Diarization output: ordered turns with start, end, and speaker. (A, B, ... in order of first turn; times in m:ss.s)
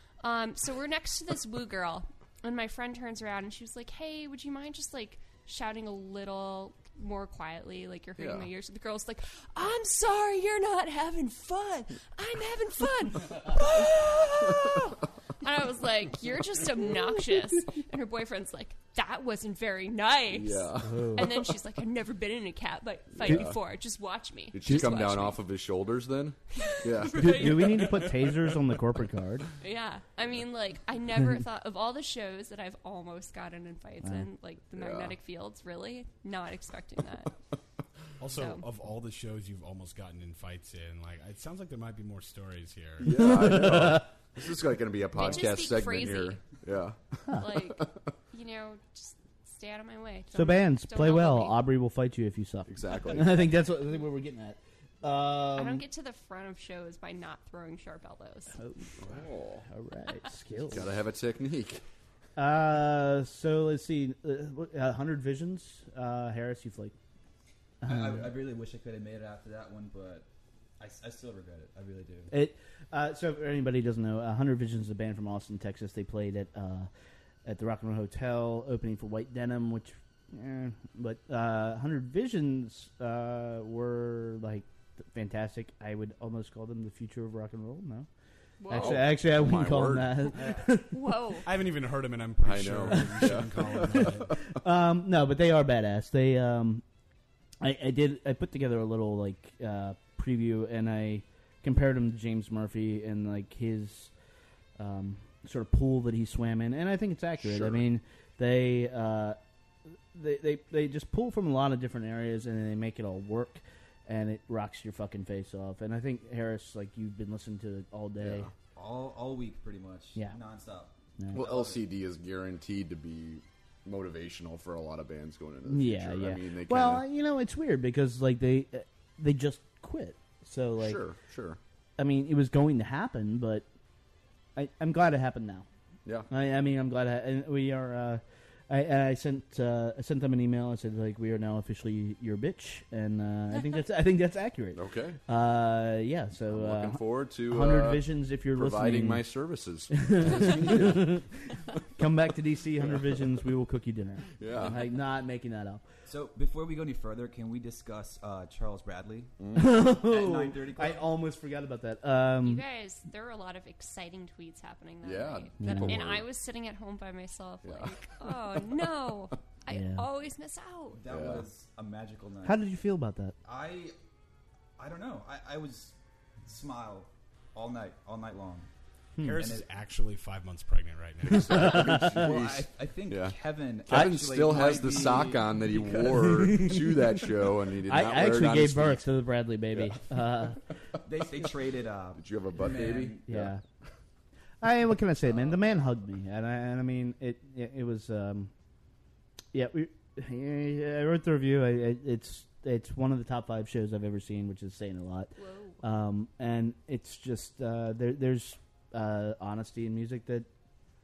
0:00.2-0:25.4 A
0:08.2-0:08.5 B
0:20.3-0:21.6 B
0:20.8-0:21.3 C
0:23.1-0:23.6 B
0:23.2-0:23.5 C
0:24.5-0:27.8 B
0:24.6-0:25.0 C
0:26.5-0:28.1 A
0:27.1-0:29.5 C
0:29.6-0:37.4 A
0:34.8-0:35.2 B
0:38.2-0:43.7 D
0:38.3-0:38.6 A
0:43.0-0:48.0 B
0:43.0-0:44.1 C
0:45.2-0:46.4 A
0:47.3-0:51.6 A
0:50.3-0:55.8 C
0:52.7-0:53.5 B
0:55.6-0:58.6 A
0:58.6-1:00.9 C
0:59.0-0:59.7 B
1:00.7-1:01.8 B
1:02.4-1:07.0 C
1:07.8-1:10.3 E
1:07.8-1:08.3 C
1:10.8-1:12.3 E
1:12.3-1:16.9 C
1:17.4-1:28.1 C
1:28.6-1:29.0 A
1:28.7-1:31.0 C
1:28.7-1:30.5 B
1:30.9-1:31.5 A
1:31.4-1:34.4 D
1:32.4-1:34.4 B
1:33.0-1:36.8 C
1:37.6-1:44.1 C
1:44.8-1:49.4 C
1:47.4-1:47.8 B
1:50.1-1:58.5 C
1:58.2-1:58.5 B
1:58.8-2:01.9 E
2:01.2-2:01.4 C
2:01.3-2:07.1 B
2:05.7-2:11.0 C
2:10.8-2:11.6 B
2:12.0-2:13.7 C
2:14.6-2:15.7 C
2:16.3-2:29.3 C
2:24.8-2:25.2 B
2:26.5-2:31.2 B
2:29.9-2:35.8 C
2:32.8-2:33.1 B
2:34.4-2:34.9 B
2:36.1-2:41.1 E
2:39.4-2:39.8 B
2:39.5-2:42.6 C
2:42.4-2:51.0 A
2:45.0-2:46.3 B
2:45.6-2:46.0 C
2:47.6-2:48.6 B
2:49.7-2:50.1 C
2:50.9-2:52.6 E
2:51.1-2:51.5 B
2:52.4-2:53.4 C
2:53.4-2:54.0 E
2:54.8-2:58.7 E
2:59.2-3:01.8 D
2:59.4-2:59.6 E
3:01.2-3:09.1 B
3:01.3-3:02.4 C
3:01.9-3:06.6 E
3:03.9-3:04.2 C
3:06.2-3:07.3 C
3:07.9-3:10.7 C
3:09.7-3:10.0 B
3:11.0-3:13.3 E
3:12.2-3:13.5 B
3:13.3-3:13.6 C
3:14.6-3:18.5 C
3:19.5-3:30.5 C
3:25.4-3:25.8 A